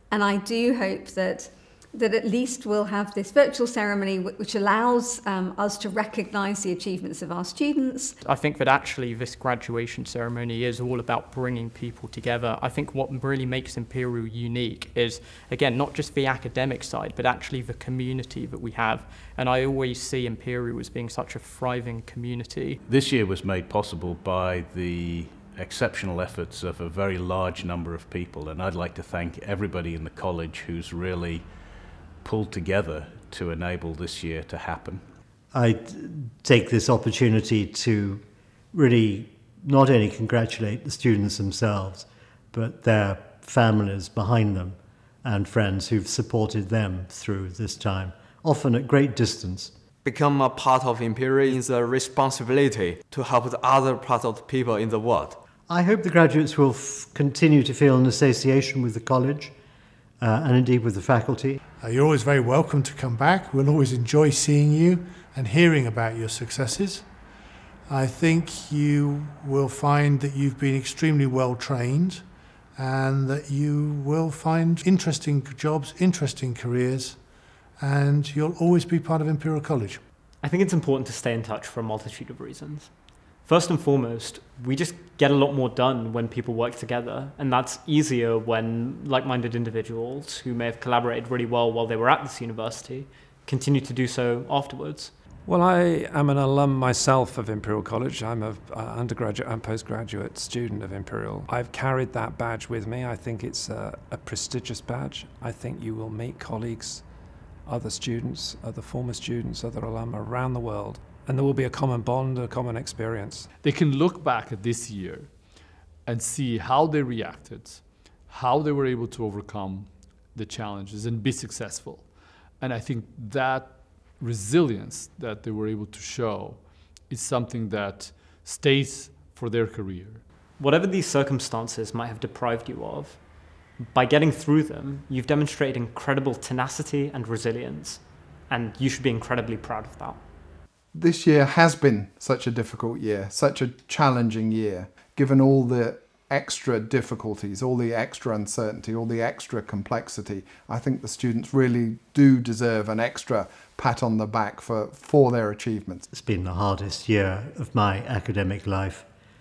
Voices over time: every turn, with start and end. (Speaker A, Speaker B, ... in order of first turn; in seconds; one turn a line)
Speaker A: 0.1-8.2
Speaker B: 8.2-22.8
Speaker C: 22.9-31.5
Speaker C: 32.2-35.0
Speaker D: 35.5-49.8
Speaker E: 50.0-55.4
Speaker D: 55.7-59.6
Speaker D: 60.2-61.6
Speaker F: 61.8-67.3
Speaker F: 67.9-80.0
Speaker G: 80.4-95.2
Speaker H: 95.5-107.0
Speaker H: 107.7-113.5
Speaker I: 113.6-130.2
Speaker G: 130.6-133.2
Speaker G: 133.8-140.2
Speaker J: 140.9-156.1
Speaker D: 156.1-159.1